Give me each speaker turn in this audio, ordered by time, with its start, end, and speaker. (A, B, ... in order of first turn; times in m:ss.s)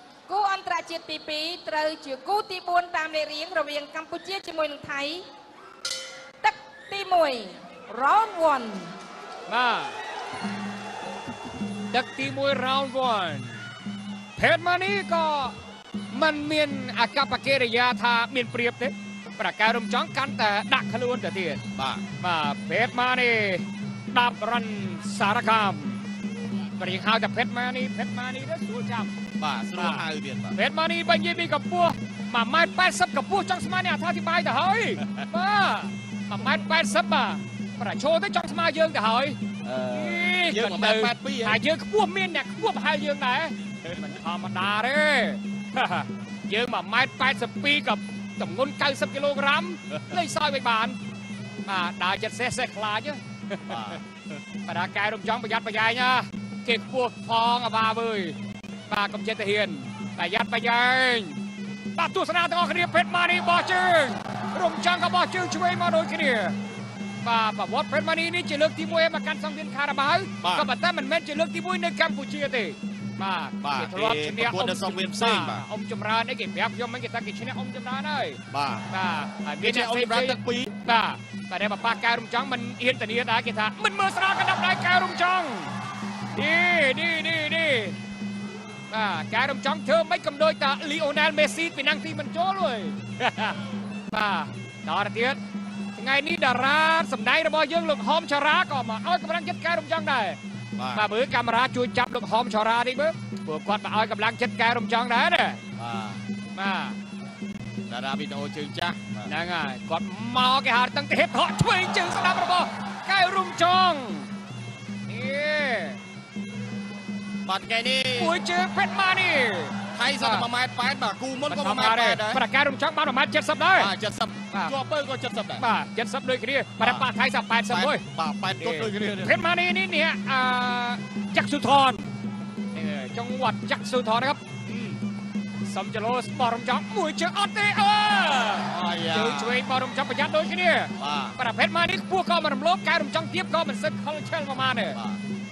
0:00.3-0:05.2 A
0:06.4-0:08.9 A
0:09.5-0:10.0 B
0:11.9-0:13.6 B
0:14.4-0:15.5 B
0:16.1-0:21.6 B
0:21.7-0:22.0 C
0:22.2-0:26.0 B
0:26.8-0:29.1 B
0:29.4-0:30.6 C
0:29.7-0:51.0 B
0:39.6-0:41.6 C
0:51.6-0:54.0 B
0:53.7-0:54.0 C
0:54.6-1:01.4 B
1:01.9-1:06.6 B
1:07.2-1:25.7 B
1:10.4-1:10.7 C
1:13.6-1:15.6 C
1:18.5-1:18.8 C
1:19.6-1:20.7 C
1:26.3-1:28.0 B
1:28.9-1:35.4 B
1:35.9-1:40.4 B
1:40.8-1:41.0 C
1:40.9-1:45.6 B
1:45.8-1:46.2 C
1:46.5-1:47.0 B
1:47.9-1:49.3 C
1:49.2-1:54.3 B
1:55.1-1:56.0 B
1:57.4-1:58.4 C
1:58.1-2:00.5 B
1:59.9-2:02.4 C
2:01.4-2:03.9 B
2:03.8-2:05.6 C
2:04.5-2:04.8 B
2:05.6-2:08.0 B
2:06.8-2:07.1 C
2:07.7-2:09.3 C
2:08.6-2:12.0 B
2:12.7-2:15.0 B
2:15.6-2:25.0 B
2:18.7-2:19.6 C
2:21.0-2:21.4 C
2:24.9-2:25.2 C